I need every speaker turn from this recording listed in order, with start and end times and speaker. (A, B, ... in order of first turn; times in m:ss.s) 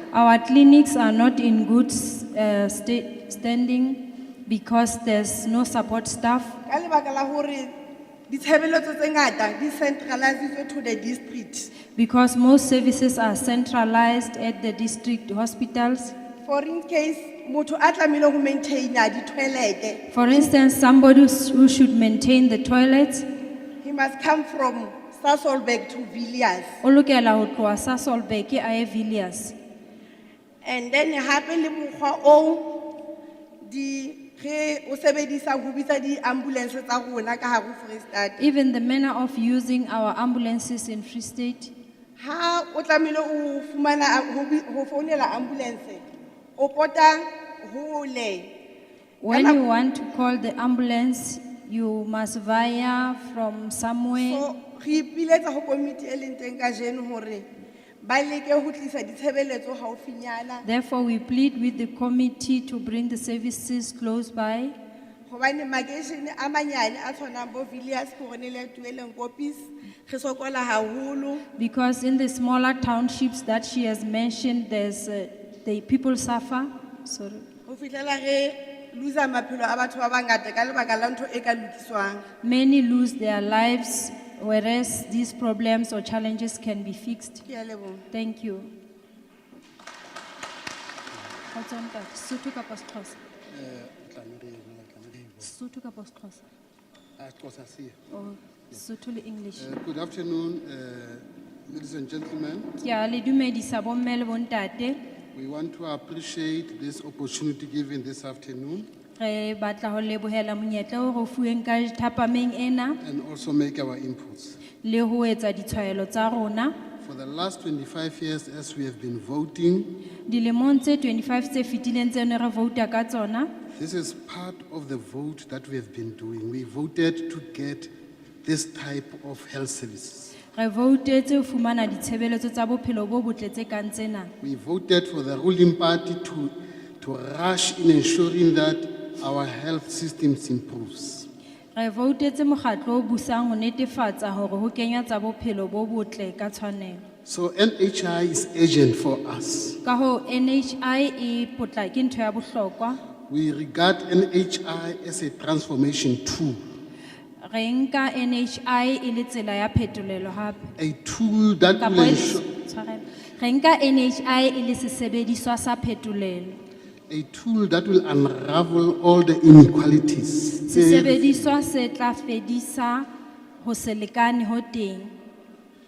0:00.1-0:06.6 A
0:06.7-0:07.7 B
0:08.3-0:11.7 B
0:11.9-0:16.1 A
0:16.4-0:20.5 B
0:20.1-0:23.2 A
0:23.8-0:26.7 B
0:26.8-0:29.6 A
0:30.6-0:32.8 B
0:33.6-0:38.4 B
0:38.4-0:41.7 A
0:42.2-0:46.0 B
0:46.6-0:48.5 B
0:49.2-0:54.4 A
0:49.3-0:49.6 B
0:54.1-0:57.5 B
0:58.0-1:00.6 B
1:00.6-1:04.7 A
1:05.3-1:11.4 B
1:11.6-1:17.4 A
1:17.7-1:22.2 B
1:22.4-1:27.4 A
1:27.4-1:28.0 B
1:28.1-1:28.7 A
1:31.5-1:33.2 A
1:33.5-1:35.5 C
1:35.4-1:36.4 A
1:37.2-1:38.0 C
1:38.1-1:39.7 A
1:39.6-1:42.7 C
1:42.8-1:45.0 A
1:45.3-1:48.9 C
1:49.2-1:53.0 A
1:53.0-1:54.6 C
1:54.8-1:56.7 A
1:57.0-1:59.9 C
2:00.3-2:03.5 A
2:03.7-2:07.9 C
2:08.4-2:10.4 C
2:10.5-2:14.3 A
2:14.4-2:21.3 C
2:21.8-2:27.0 A
2:27.2-2:29.8 C
2:29.8-2:33.0 A
2:33.3-2:36.6 C
2:37.4-2:40.7 A
2:40.8-2:42.4 C
2:41.6-2:46.6 A
2:47.1-2:51.4 C
2:50.6-2:53.1 A
2:53.6-2:55.1 A